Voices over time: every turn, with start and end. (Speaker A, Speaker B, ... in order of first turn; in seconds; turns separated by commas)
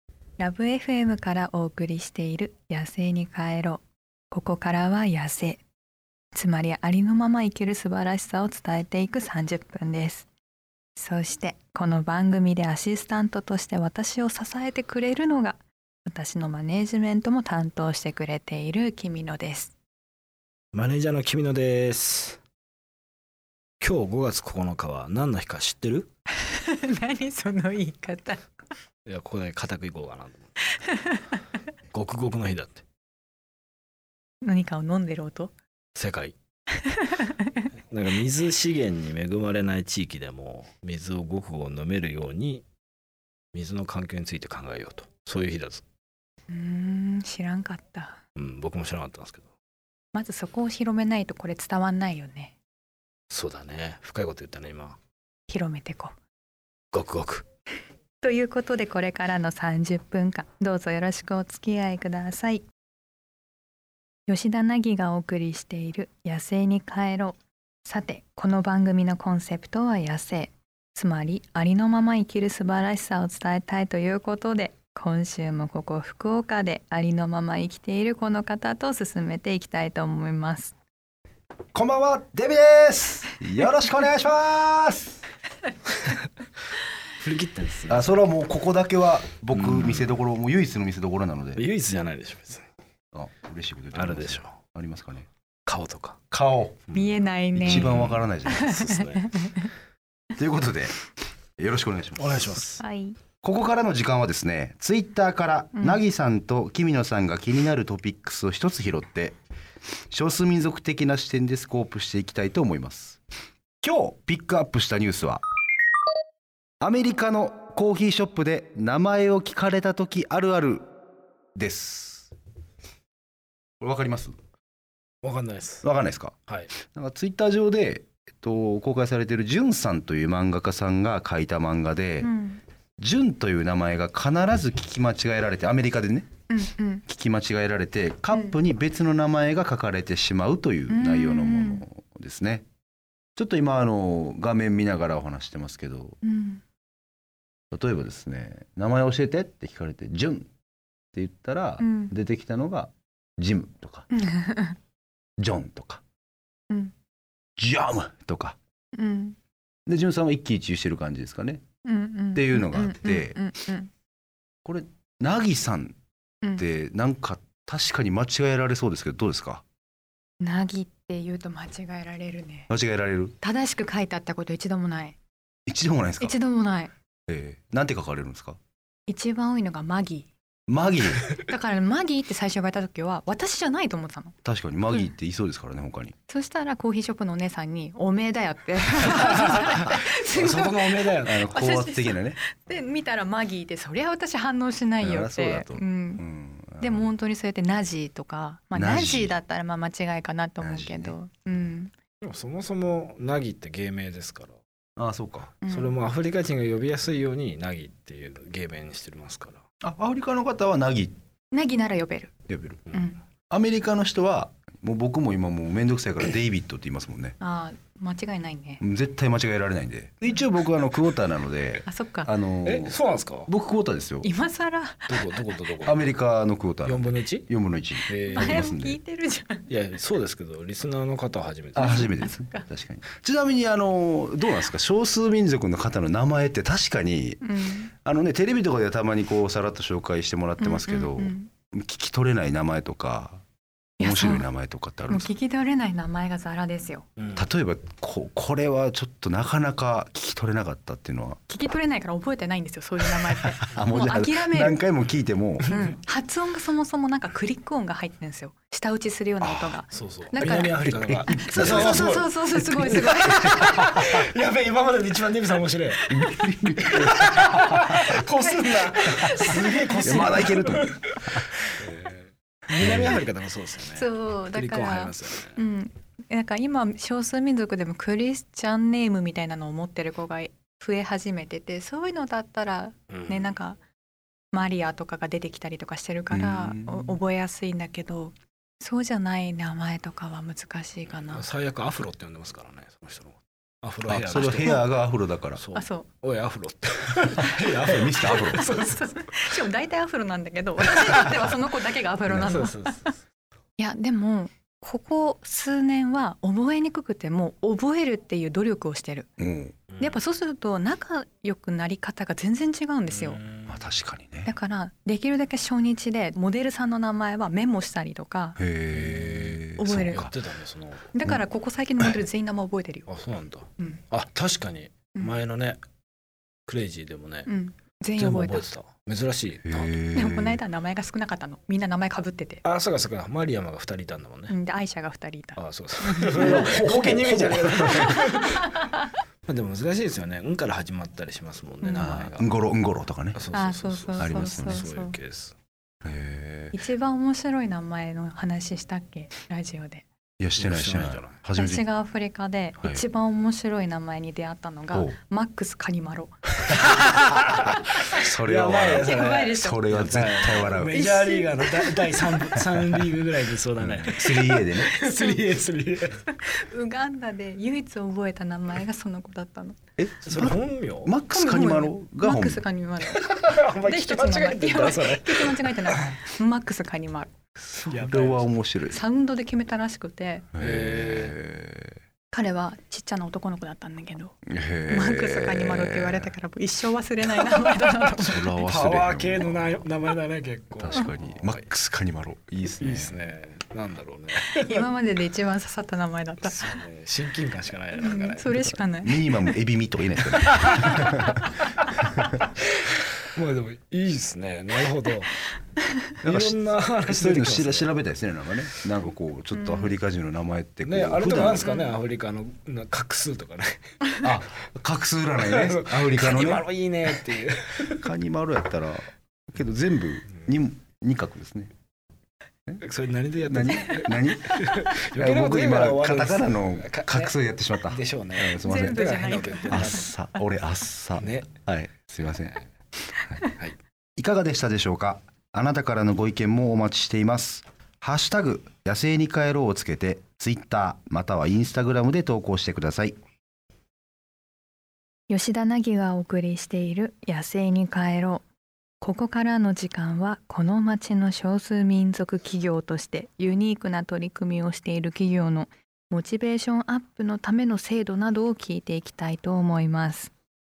Speaker A: 0.4-5.6, Speaker A: 6.3-10.3, Speaker A: 10.9-19.7, Speaker B: 20.7-22.4, Speaker B: 23.8-26.1, Speaker A: 26.4-28.4, Speaker B: 29.1-30.6, Speaker A: 30.7-31.5, Speaker B: 31.9-32.8, Speaker A: 34.4-35.5, Speaker B: 35.9-36.3, Speaker A: 36.7-37.6, Speaker B: 37.9-42.6, Speaker B: 43.5-45.8, Speaker A: 46.5-48.2, Speaker B: 48.4-49.5, Speaker A: 50.1-52.5, Speaker B: 53.3-55.0, Speaker A: 55.5-56.1, Speaker B: 56.9-57.5, Speaker A: 58.2-62.6, Speaker A: 64.3-80.7, Speaker C: 81.7-85.2, Speaker B: 87.2-88.2, Speaker C: 87.9-91.6, Speaker B: 89.5-90.1, Speaker B: 91.5-92.7, Speaker C: 93.1-95.3, Speaker B: 93.9-94.6, Speaker B: 95.7-96.2, Speaker C: 96.3-96.8, Speaker B: 96.9-99.3, Speaker A: 96.9-97.9, Speaker C: 97.6-98.9, Speaker A: 98.5-99.7, Speaker C: 100.3-101.0, Speaker C: 101.6-102.6, Speaker B: 102.2-102.8, Speaker A: 102.8-103.2, Speaker C: 103.4-109.4, Speaker A: 105.7-106.0, Speaker C: 110.1-113.2, Speaker C: 113.8-115.4, Speaker C: 116.8-120.9, Speaker C: 121.5-122.3, Speaker C: 123.8-124.3, Speaker B: 125.2-125.8, Speaker C: 125.8-132.3, Speaker A: 132.2-132.6, Speaker C: 133.0-136.3, Speaker A: 136.5-137.0, Speaker C: 137.1-142.7, Speaker A: 140.9-141.8, Speaker C: 143.3-146.2, Speaker A: 146.2-146.6, Speaker C: 147.7-150.5, Speaker C: 151.1-154.1, Speaker A: 151.8-152.1, Speaker A: 154.1-154.8, Speaker C: 155.4-156.0, Speaker C: 157.6-158.6, Speaker A: 158.9-159.3, Speaker C: 159.9-161.6, Speaker A: 161.8-163.9, Speaker C: 162.3-163.4, Speaker C: 164.6-166.0, Speaker C: 166.6-169.6, Speaker A: 170.4-172.7, Speaker C: 172.7-173.3, Speaker A: 173.4-175.2, Speaker C: 175.7-176.4, Speaker A: 176.2-176.9, Speaker C: 177.3-178.6, Speaker A: 179.1-180.3, Speaker C: 180.7-181.2, Speaker A: 181.3-184.3, Speaker C: 184.4-186.1, Speaker A: 186.3-196.2, Speaker B: 189.0-191.5, Speaker C: 191.2-192.4, Speaker C: 195.0-197.1, Speaker A: 196.8-201.9, Speaker C: 198.7-199.3, Speaker C: 200.6-201.2, Speaker B: 202.2-204.6, Speaker C: 205.0-205.6, Speaker A: 205.6-205.9, Speaker B: 205.7-209.6, Speaker C: 209.8-211.1, Speaker A: 211.5-212.3, Speaker C: 212.5-212.9, Speaker A: 212.9-213.2, Speaker C: 213.5-217.3, Speaker A: 217.4-218.8, Speaker C: 218.8-224.3, Speaker A: 221.8-222.3, Speaker B: 222.6-223.5, Speaker A: 224.2-225.3, Speaker B: 225.1-226.0, Speaker C: 225.8-229.0, Speaker B: 226.8-227.5, Speaker B: 228.1-228.7, Speaker A: 228.3-229.7, Speaker B: 229.7-232.1, Speaker A: 231.8-232.7, Speaker C: 231.8-243.4, Speaker A: 237.4-237.9, Speaker A: 240.6-241.5, Speaker A: 244.0-244.5, Speaker C: 244.0-245.3, Speaker A: 245.1-247.1, Speaker B: 247.2-247.4, Speaker C: 247.3-251.4, Speaker A: 251.5-254.8, Speaker C: 253.7-255.7, Speaker A: 255.7-264.1, Speaker C: 259.4-259.8, Speaker B: 259.9-266.0, Speaker C: 260.4-263.6, Speaker A: 266.0-266.8, Speaker C: 266.1-267.4, Speaker B: 266.8-275.6, Speaker A: 267.4-270.6, Speaker C: 269.4-271.0, Speaker C: 272.8-273.2, Speaker A: 273.9-283.8, Speaker B: 283.1-283.5, Speaker A: 284.5-291.4, Speaker C: 286.3-287.2, Speaker B: 291.3-295.0, Speaker C: 294.1-295.6, Speaker A: 294.6-294.9, Speaker B: 295.5-298.6, Speaker A: 295.7-296.1, Speaker C: 297.8-298.6, Speaker A: 298.2-302.7, Speaker B: 302.3-303.2, Speaker A: 303.8-309.3, Speaker C: 309.4-309.7, Speaker B: 309.9-310.2, Speaker A: 310.0-313.4, Speaker B: 313.1-313.9, Speaker C: 313.7-314.5, Speaker A: 314.4-318.6, Speaker C: 318.6-320.3, Speaker B: 318.9-321.1, Speaker A: 319.8-320.3, Speaker A: 321.1-323.1, Speaker B: 323.1-325.8, Speaker B: 326.6-327.5, Speaker A: 327.5-328.7, Speaker B: 328.2-330.0, Speaker C: 329.7-330.6, Speaker A: 330.1-332.6, Speaker B: 332.6-334.5, Speaker A: 334.5-336.7, Speaker B: 335.6-338.7, Speaker C: 336.3-338.3, Speaker A: 338.4-339.1, Speaker B: 339.4-342.5, Speaker A: 341.8-342.2, Speaker C: 342.0-343.4, Speaker B: 343.3-345.5, Speaker A: 343.5-345.1, Speaker C: 344.2-344.9, Speaker C: 346.0-346.8, Speaker A: 346.7-350.0, Speaker C: 350.4-351.9, Speaker B: 350.6-351.4, Speaker A: 351.6-356.8, Speaker C: 354.9-355.2, Speaker B: 356.8-366.2, Speaker C: 358.1-361.1, Speaker A: 359.0-359.8, Speaker A: 360.8-362.2, Speaker C: 363.8-364.9, Speaker A: 364.8-365.4, Speaker A: 366.3-369.8, Speaker C: 370.0-372.6, Speaker B: 370.2-371.1, Speaker A: 371.3-373.2, Speaker B: 373.0-376.2, Speaker A: 373.8-377.3, Speaker C: 377.7-379.0, Speaker B: 377.9-378.5, Speaker A: 378.9-380.5, Speaker C: 380.5-381.9, Speaker B: 380.6-381.4, Speaker A: 382.3-384.4, Speaker C: 384.4-386.3, Speaker A: 384.9-388.4, Speaker B: 387.9-391.6, Speaker C: 388.2-389.8, Speaker C: 390.8-393.1, Speaker B: 392.8-394.9, Speaker A: 394.5-396.8, Speaker B: 396.4-398.6, Speaker A: 398.0-399.3, Speaker C: 399.0-401.4, Speaker B: 400.3-405.4, Speaker B: 406.2-407.9, Speaker C: 406.2-411.7, Speaker A: 409.5-409.9, Speaker B: 410.8-413.9, Speaker A: 411.6-411.9, Speaker C: 414.2-416.7, Speaker B: 415.4-418.1, Speaker C: 418.0-421.7, Speaker B: 422.8-430.1, Speaker C: 423.5-429.1, Speaker A: 428.6-430.1, Speaker C: 429.7-432.6, Speaker B: 431.2-431.5, Speaker B: 432.3-432.6, Speaker C: 434.2-443.2, Speaker A: 445.3-448.4, Speaker A: 449.0-460.3